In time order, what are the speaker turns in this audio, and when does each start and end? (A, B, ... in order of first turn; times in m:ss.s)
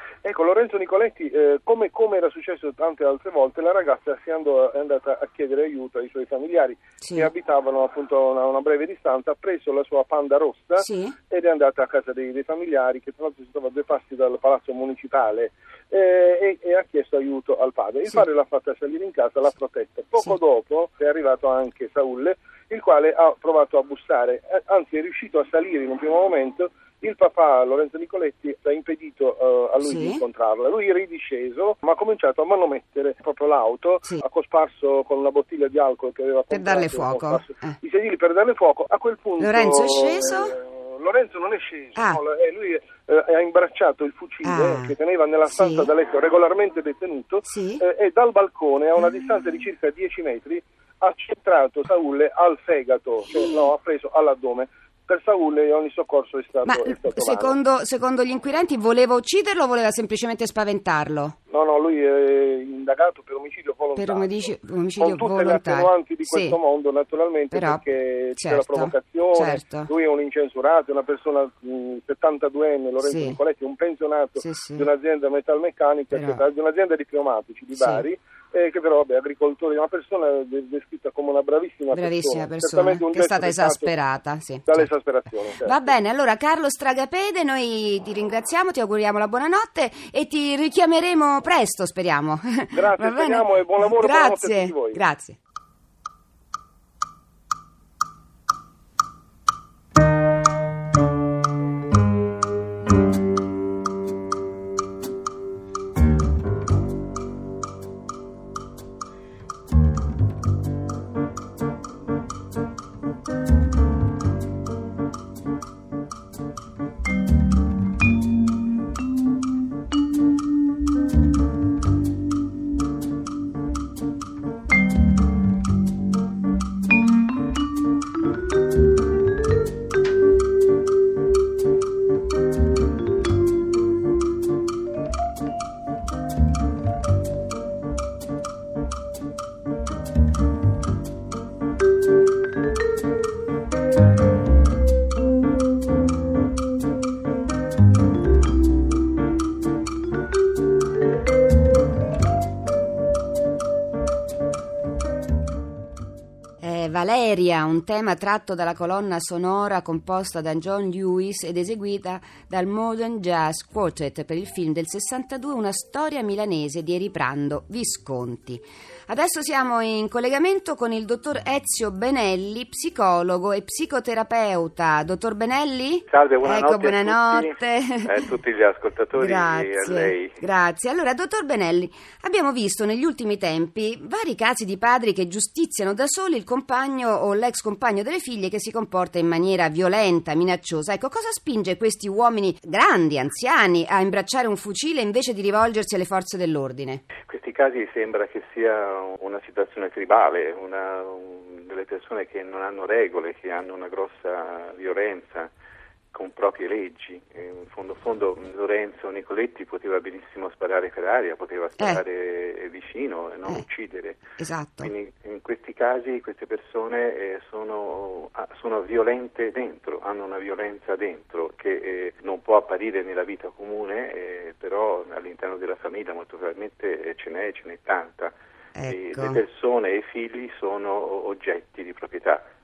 0:00.2-0:57.6 A
0:07.0-0:07.3 B
0:10.8-0:11.2 B
0:29.8-0:30.2 B
0:36.5-0:37.7 B
0:39.4-0:40.6 B
0:44.4-0:45.0 B
0:45.5-0:45.9 B
0:47.4-0:47.8 B
0:56.6-1:01.4 B
1:01.5-1:23.9 A
1:04.0-1:06.6 B
1:07.5-1:09.9 B
1:13.0-1:13.4 B
1:14.4-1:14.9 B
1:16.1-1:16.4 B
1:17.8-1:18.0 B
1:21.9-1:24.8 B
1:24.7-1:25.9 A
1:25.6-1:35.4 B
1:32.7-1:35.0 A
2:36.6-2:58.2 B
2:56.1-3:00.4 C
2:59.2-3:17.0 B
3:17.2-3:25.5 C
3:26.1-3:34.2 C
3:34.4-3:34.9 B
3:34.8-3:48.3 C
3:48.8-3:49.4 B
3:48.8-3:52.4 C